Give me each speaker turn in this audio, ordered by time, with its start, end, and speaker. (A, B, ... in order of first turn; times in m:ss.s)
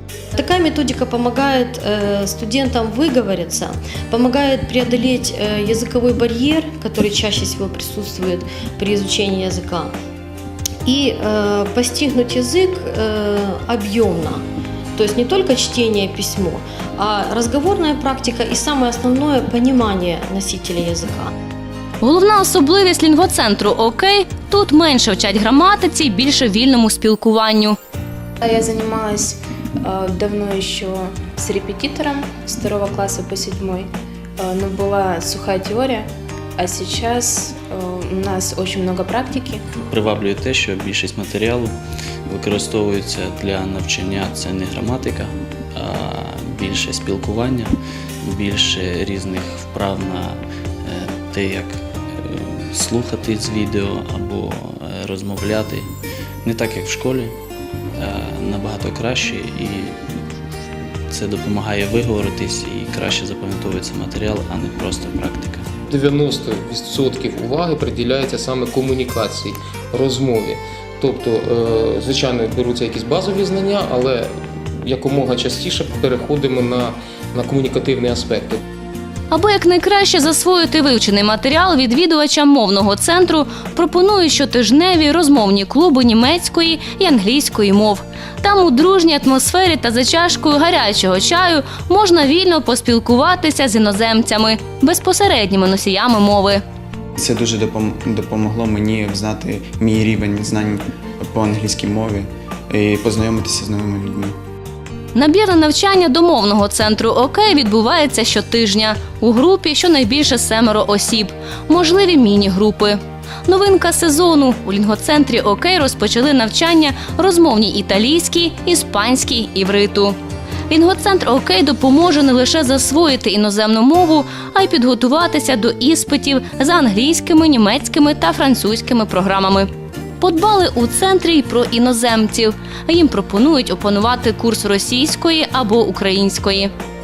0:00.4-0:09.9 A
0:10.8-0:14.4 A
0:15.0-0:21.3 A
0:22.0-0:27.8 B
0:28.4-0:39.6 C
0:39.9-0:41.7 D
0:42.3-0:55.9 D
0:56.4-0:57.3 D
0:58.0-1:00.0 D
1:01.1-1:05.6 D
1:05.9-1:14.3 E
1:14.8-1:18.6 E
1:19.3-1:36.6 B
1:37.2-1:44.3 F
1:45.1-2:00.2 B
2:00.7-2:09.7 B
2:10.2-2:16.7 B